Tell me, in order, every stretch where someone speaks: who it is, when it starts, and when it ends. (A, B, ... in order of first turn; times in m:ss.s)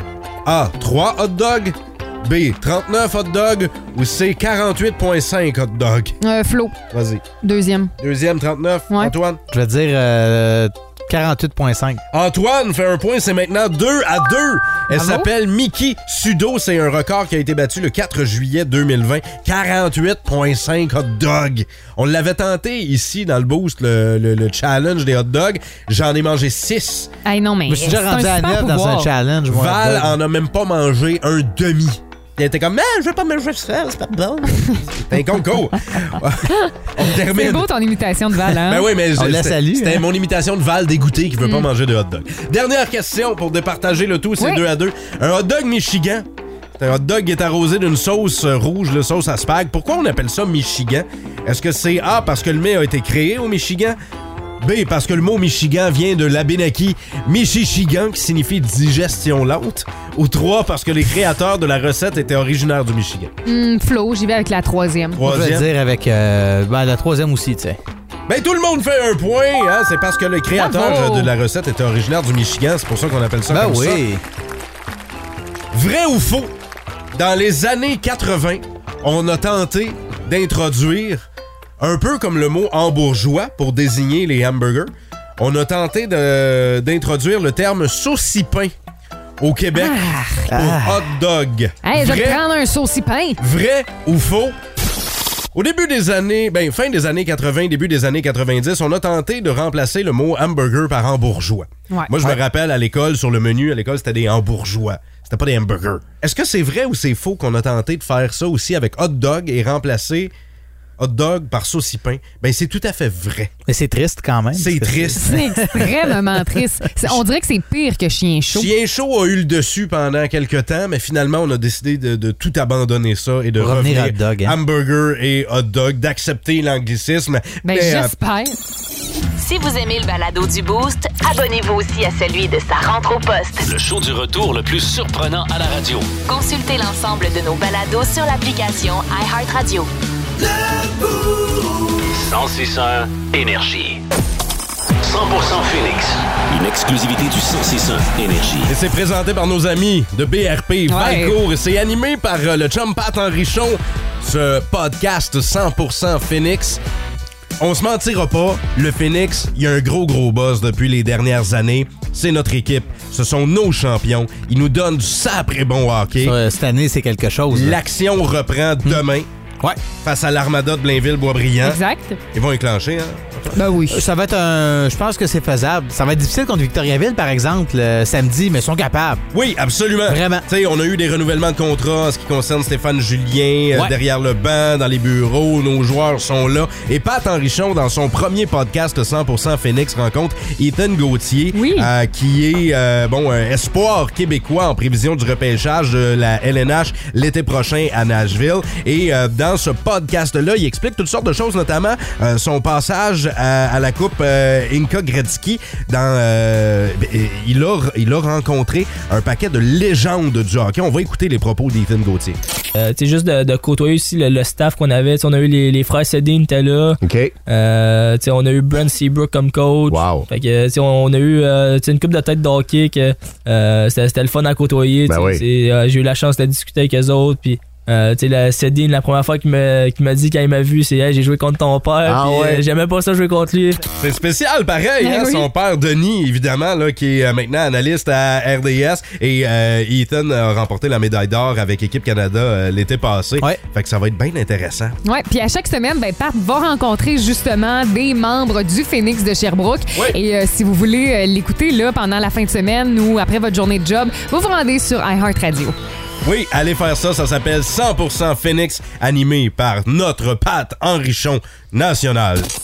0:00.4-0:06.2 A
0:06.2-0:06.8 B
0:06.9-0:07.2 A
0:07.4-0:07.9 B
0:08.0-0:09.4 A
0:09.5-0:12.0 C
0:12.1-0:27.1 A
0:14.9-0:15.3 B
0:27.2-0:29.1 B
0:27.7-0:30.2 C
0:29.5-0:37.7 A
0:36.5-0:38.9 B
0:38.6-0:46.3 A
0:39.1-0:40.1 C
0:46.8-0:54.0 A
0:54.6-1:03.3 A
1:03.4-1:05.2 B
1:05.2-1:05.7 A
1:05.2-1:07.8 C
1:08.3-1:14.0 A
1:10.5-1:11.3 B
1:13.5-1:14.2 C
1:15.7-1:16.5 A
1:17.1-1:21.2 A
1:21.8-1:28.7 A
1:29.4-1:32.4 A
1:29.7-1:30.5 B
1:30.5-1:31.1 C
1:31.8-1:33.4 B
1:33.4-1:34.6 A
1:35.5-1:50.3 A
1:51.0-1:53.5 A
1:53.6-1:56.1 C
1:54.5-1:55.9 A
1:55.2-1:58.7 B
1:58.5-2:08.1 A
2:03.6-2:04.6 C
2:07.6-2:08.6 B
2:09.4-2:13.7 D
2:13.6-2:16.1 E
2:16.3-2:19.9 D
2:22.1-2:24.0 E
2:25.0-2:28.7 E
2:28.7-2:36.8 A
2:30.9-2:31.4 B
2:37.6-2:46.3 A
2:46.2-2:47.8 C
2:47.5-2:49.3 A
2:50.0-2:51.8 A
2:51.6-2:52.2 B
2:52.3-2:53.5 A
2:53.5-2:54.0 B
2:53.9-2:59.2 C
2:59.3-3:32.4 A
3:00.1-3:00.4 C
3:11.5-3:11.9 B
3:32.8-3:53.8 F
3:37.0-3:37.3 A
3:39.9-3:40.2 A
3:45.1-3:45.4 A
3:52.1-3:52.6 A
3:54.0-4:05.0 A
3:55.0-3:55.5 B
4:05.0-4:15.8 B
4:16.2-4:22.5 A